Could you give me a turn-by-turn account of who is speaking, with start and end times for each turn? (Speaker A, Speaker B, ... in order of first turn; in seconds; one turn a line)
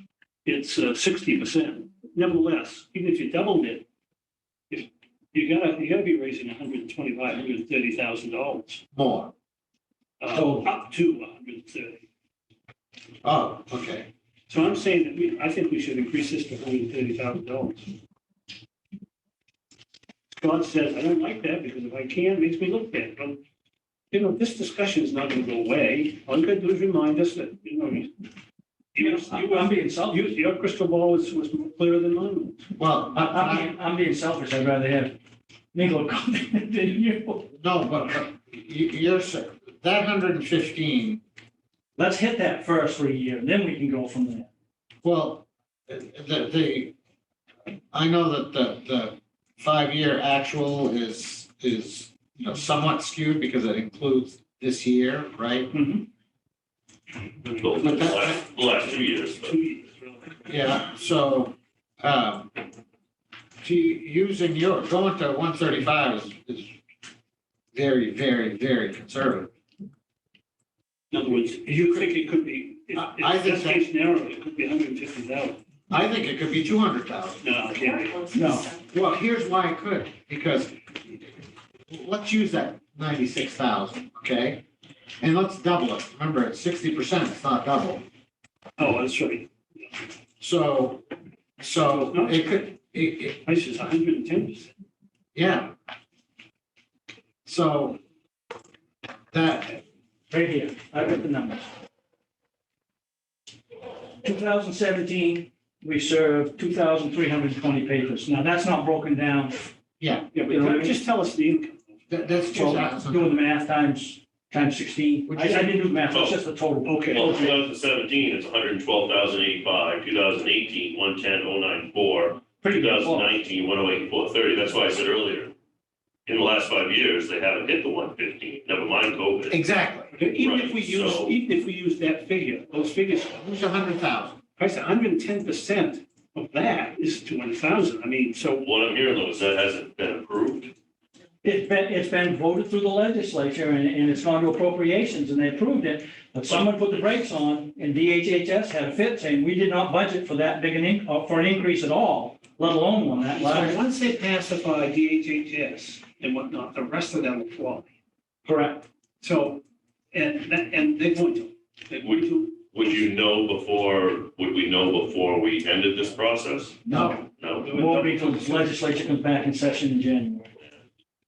Speaker A: 0.4-3.8
Speaker A: 4.7-8.8
Speaker B: 8.9-9.3
Speaker A: 10.2-12.0
Speaker C: 10.3-10.7
Speaker B: 13.2-14.1
Speaker A: 14.5-17.9
Speaker A: 20.3-23.4
Speaker A: 24.1-28.1
Speaker A: 28.9-32.7
Speaker C: 29.0-30.4
Speaker B: 32.8-33.7
Speaker C: 33.2-35.2
Speaker C: 35.7-37.5
Speaker B: 37.5-41.2
Speaker C: 42.0-44.5
Speaker B: 45.0-46.9
Speaker B: 47.9-55.7
Speaker C: 55.7-56.0
Speaker A: 57.4-60.5
Speaker D: 57.6-59.6
Speaker B: 57.8-58.4
Speaker B: 60.5-62.5
Speaker B: 63.6-66.7
Speaker B: 67.7-69.5
Speaker A: 71.1-75.6
Speaker B: 71.7-72.1
Speaker B: 72.9-73.8
Speaker B: 75.9-77.4
Speaker A: 77.4-78.4
Speaker C: 78.3-78.7
Speaker B: 78.8-80.7
Speaker B: 81.9-84.6
Speaker B: 85.2-88.0
Speaker A: 88.8-89.9
Speaker B: 90.4-91.0
Speaker B: 91.6-93.4
Speaker A: 91.8-92.6
Speaker A: 93.4-94.7
Speaker B: 95.3-95.7
Speaker B: 97.4-98.0
Speaker B: 99.3-99.8
Speaker C: 100.3-101.7
Speaker C: 104.2-109.7
Speaker B: 110.0-110.3
Speaker A: 110.3-112.7
Speaker C: 110.4-111.0
Speaker B: 112.1-113.3
Speaker C: 112.5-117.6
Speaker B: 115.3-115.8
Speaker D: 116.1-116.4
Speaker A: 116.8-117.3
Speaker D: 117.1-125.5
Speaker C: 122.6-123.3
Speaker D: 126.3-129.6
Speaker B: 129.5-130.1
Speaker A: 130.1-133.4
Speaker D: 130.4-131.3
Speaker B: 133.3-134.4
Speaker A: 134.6-138.7
Speaker D: 138.6-140.7
Speaker C: 141.4-153.8
Speaker D: 146.4-147.2
Speaker A: 153.4-157.9
Speaker C: 158.4-158.8
Speaker A: 159.2-162.7
Speaker D: 162.0-167.7
Speaker C: 166.8-167.2
Speaker B: 166.9-167.2
Speaker A: 167.6-168.8
Speaker C: 167.7-170.6